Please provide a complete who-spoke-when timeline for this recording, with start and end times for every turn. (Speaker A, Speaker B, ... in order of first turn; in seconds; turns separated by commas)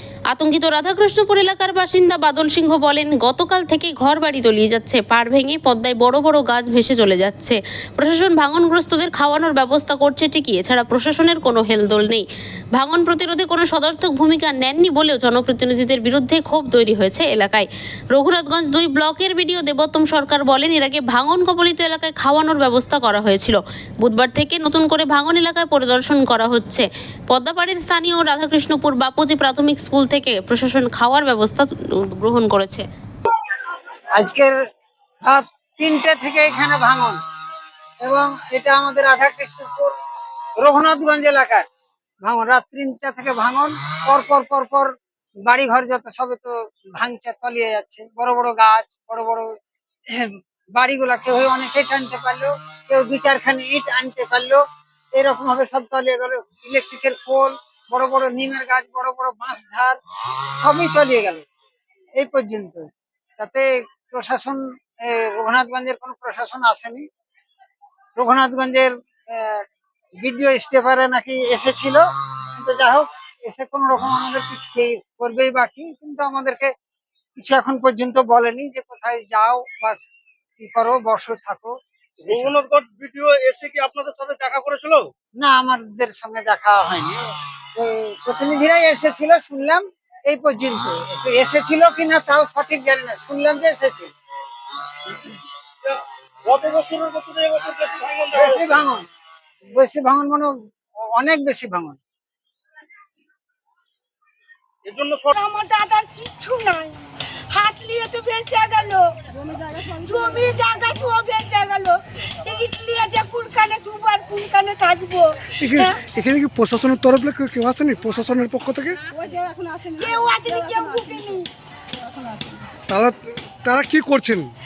Speaker A: 0.3-32.8, Speaker B: 34.2-34.5, Speaker B: 35.3-37.2, Speaker B: 38.0-39.9, Speaker B: 40.6-41.6, Speaker B: 42.2-44.9, Speaker B: 45.5-49.5, Speaker B: 50.1-54.6, Speaker B: 55.1-60.0, Speaker B: 60.6-61.4, Speaker B: 62.2-62.9, Speaker B: 63.4-67.0, Speaker B: 68.2-69.6, Speaker B: 70.2-72.0, Speaker B: 72.6-76.7, Speaker B: 77.4-80.0, Speaker B: 80.6-81.7, Speaker C: 82.3-85.1, Speaker B: 85.4-94.1, Speaker C: 95.8-98.8, Speaker B: 98.3-99.0, Speaker B: 99.7-100.5, Speaker B: 101.2-102.0, Speaker C: 104.8-105.3, Speaker D: 105.3-107.0, Speaker D: 107.5-109.3, Speaker D: 109.8-116.0, Speaker E: 115.6-119.0, Speaker D: 120.0-121.5, Speaker E: 122.9-124.5